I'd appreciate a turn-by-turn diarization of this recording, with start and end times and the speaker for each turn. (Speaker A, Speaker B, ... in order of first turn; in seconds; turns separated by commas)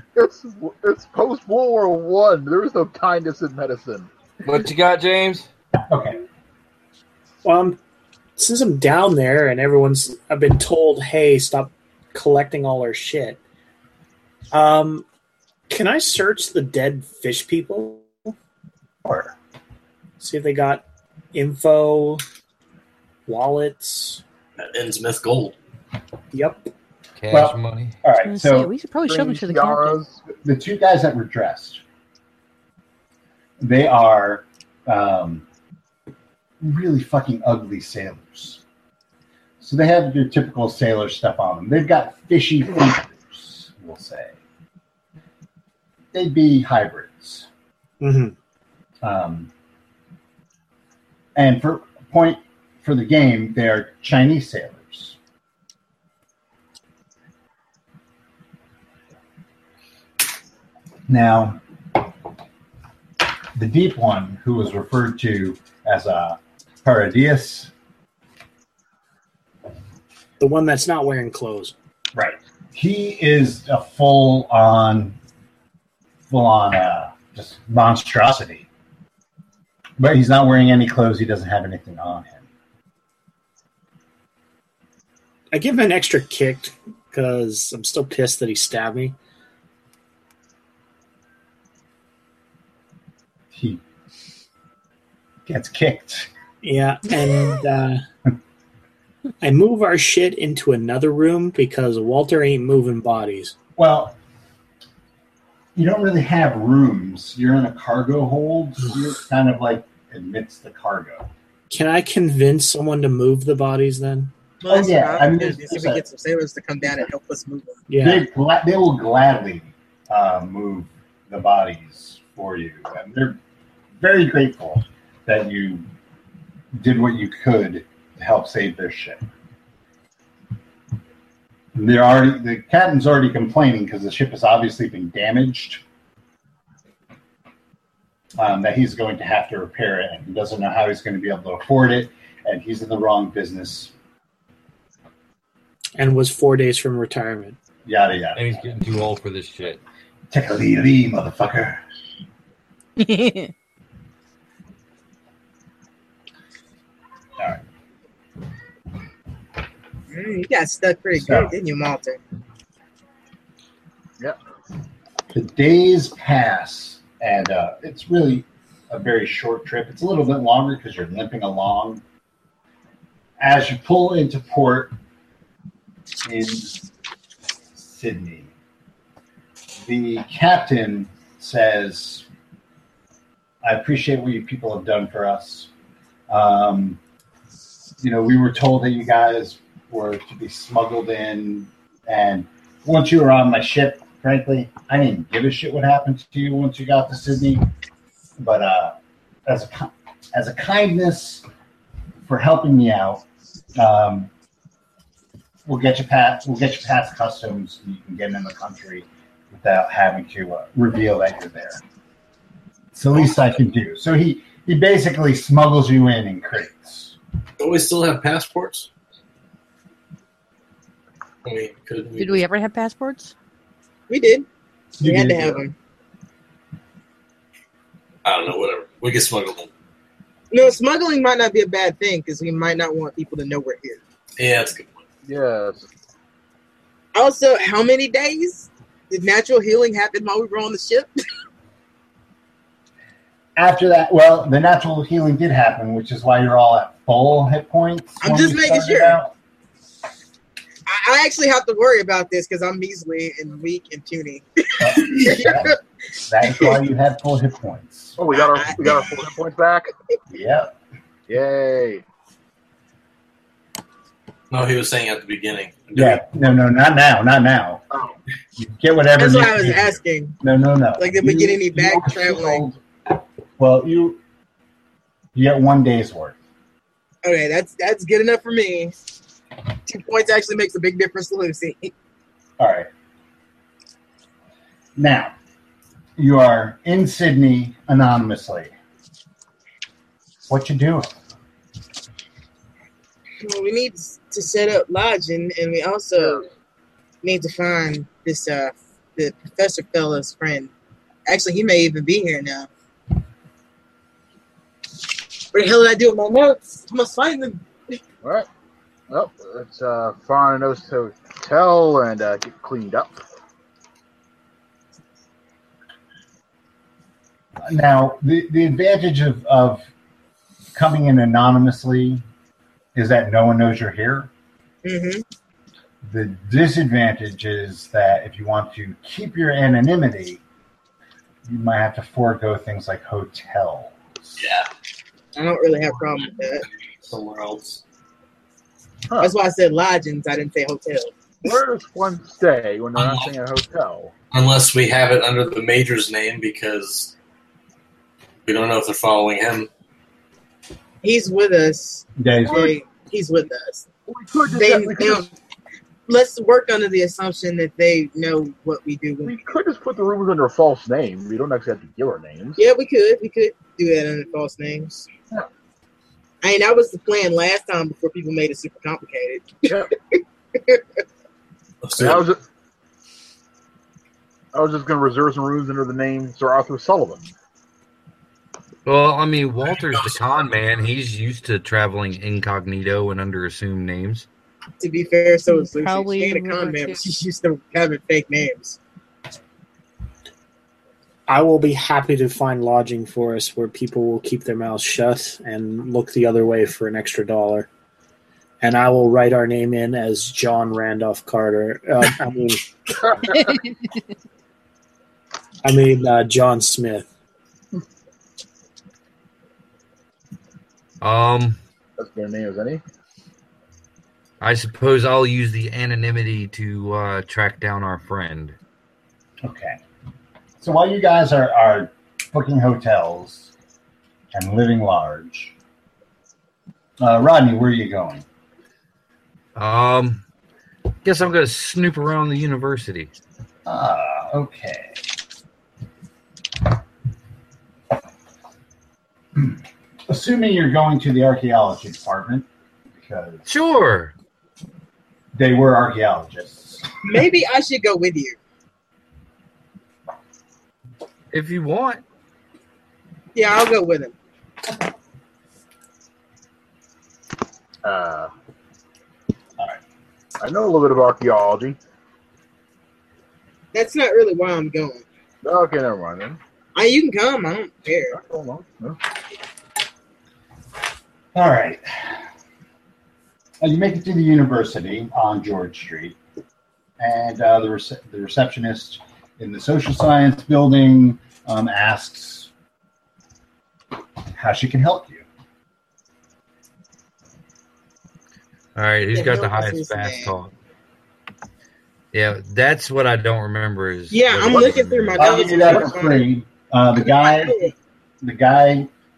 Speaker A: 0.1-4.1, Speaker B: 4.5-5.5, Speaker C: 5.9-6.2, Speaker D: 7.4-7.8, Speaker D: 8.4-13.4, Speaker D: 14.5-15.1, Speaker D: 15.7-18.3, Speaker C: 19.0-19.4, Speaker D: 20.2-22.2, Speaker D: 23.3-24.2, Speaker E: 24.6-25.6, Speaker D: 26.3-26.7, Speaker B: 27.2-28.0, Speaker C: 27.3-28.7, Speaker F: 28.2-30.0, Speaker A: 29.1-30.2, Speaker C: 30.4-31.8, Speaker C: 33.6-35.4, Speaker C: 36.6-38.6, Speaker C: 39.6-44.4, Speaker C: 46.1-47.5, Speaker D: 48.0-48.4, Speaker C: 49.0-49.5, Speaker C: 51.4-55.2, Speaker C: 61.1-61.6, Speaker C: 63.5-67.7, Speaker D: 70.4-71.8, Speaker C: 72.1-75.2, Speaker C: 76.3-78.7, Speaker C: 80.0-82.4, Speaker D: 85.5-89.2, Speaker C: 93.5-93.8, Speaker C: 95.5-96.3, Speaker D: 96.6-98.0, Speaker D: 99.4-103.5, Speaker C: 103.8-104.2, Speaker C: 105.8-111.3, Speaker D: 111.7-114.3, Speaker G: 114.6-117.8, Speaker C: 114.7-116.0, Speaker D: 117.9-118.2, Speaker C: 118.0-123.4, Speaker C: 124.0-125.9, Speaker C: 126.7-129.2, Speaker C: 131.7-135.8, Speaker C: 138.4-143.9, Speaker D: 146.0-147.6, Speaker C: 147.8-148.7, Speaker B: 148.3-149.8, Speaker C: 150.3-151.8, Speaker F: 153.0-153.5, Speaker C: 157.4-157.6, Speaker G: 160.1-162.2, Speaker C: 161.2-161.5, Speaker C: 165.3-172.0, Speaker C: 173.4-174.9, Speaker C: 176.2-176.8, Speaker C: 177.8-178.5, Speaker C: 179.8-182.3, Speaker C: 183.6-185.7, Speaker C: 186.3-187.0, Speaker C: 188.0-197.7, Speaker C: 198.4-201.4, Speaker C: 202.2-203.2, Speaker C: 203.8-204.3, Speaker C: 205.7-211.8, Speaker C: 212.9-217.2, Speaker E: 217.6-218.9, Speaker E: 221.4-222.5, Speaker F: 222.2-223.3, Speaker G: 224.1-224.5, Speaker C: 225.0-225.6, Speaker G: 225.0-225.7, Speaker E: 228.2-229.7, Speaker G: 230.5-234.0, Speaker E: 234.4-235.0, Speaker A: 235.2-235.9, Speaker G: 237.1-241.1, Speaker C: 243.6-249.3, Speaker G: 248.2-249.2, Speaker G: 250.9-255.8, Speaker C: 254.8-258.2, Speaker G: 256.5-256.8, Speaker A: 258.2-259.9, Speaker G: 258.4-259.1, Speaker C: 260.3-260.7, Speaker A: 261.3-262.0, Speaker E: 264.5-266.2, Speaker C: 265.9-267.8, Speaker C: 268.6-274.2, Speaker G: 269.2-270.4, Speaker G: 271.0-272.6, Speaker C: 275.4-276.4, Speaker G: 277.2-278.9, Speaker G: 279.9-281.9, Speaker C: 282.6-282.9, Speaker C: 285.0-285.3, Speaker C: 286.2-288.7, Speaker C: 290.5-291.1, Speaker G: 293.4-296.4, Speaker G: 297.2-300.7, Speaker G: 301.3-302.7, Speaker G: 305.5-308.0, Speaker A: 309.1-313.2, Speaker C: 317.6-319.9, Speaker C: 320.8-322.2, Speaker C: 322.9-324.3, Speaker G: 324.8-325.2, Speaker C: 326.0-330.4, Speaker C: 331.4-334.4, Speaker E: 334.4-334.7, Speaker G: 335.4-336.6, Speaker E: 337.1-337.8, Speaker A: 339.1-339.4, Speaker G: 339.2-341.1, Speaker A: 341.4-344.1, Speaker E: 343.0-343.3, Speaker E: 344.3-347.1, Speaker E: 348.4-349.7, Speaker G: 351.0-353.9, Speaker C: 352.2-352.8, Speaker A: 354.1-355.3, Speaker G: 354.5-355.3, Speaker G: 356.1-359.4, Speaker A: 359.2-362.6, Speaker G: 362.6-365.1, Speaker G: 366.4-369.8, Speaker G: 370.6-370.8, Speaker E: 371.8-372.3, Speaker A: 372.0-372.4, Speaker A: 374.5-377.2, Speaker B: 378.9-384.3, Speaker E: 379.8-380.4, Speaker G: 384.8-388.8, Speaker F: 385.5-387.0, Speaker D: 391.3-397.7, Speaker D: 398.6-402.7, Speaker D: 405.6-407.1, Speaker B: 411.0-411.6, Speaker A: 412.0-412.8, Speaker B: 414.4-418.6, Speaker C: 419.4-419.8, Speaker C: 420.6-423.5, Speaker C: 424.3-425.6, Speaker C: 427.0-428.2, Speaker B: 429.6-430.2, Speaker B: 431.0-433.1, Speaker C: 433.7-435.0, Speaker C: 439.4-443.4, Speaker B: 443.4-444.1, Speaker C: 445.4-446.9, Speaker G: 447.0-448.4, Speaker B: 451.3-452.0, Speaker G: 453.4-454.1, Speaker A: 457.8-458.3, Speaker A: 460.4-461.8, Speaker G: 463.7-465.1, Speaker A: 465.4-466.4, Speaker G: 466.8-468.2, Speaker A: 468.1-469.0, Speaker C: 471.3-472.2, Speaker C: 473.6-476.2, Speaker C: 477.0-482.5, Speaker C: 484.3-485.2, Speaker B: 488.8-490.5, Speaker G: 489.1-490.4, Speaker B: 492.1-495.4, Speaker G: 494.1-496.3, Speaker A: 494.5-494.8, Speaker C: 495.2-497.7, Speaker A: 495.6-495.9, Speaker G: 497.0-497.7, Speaker C: 498.2-498.9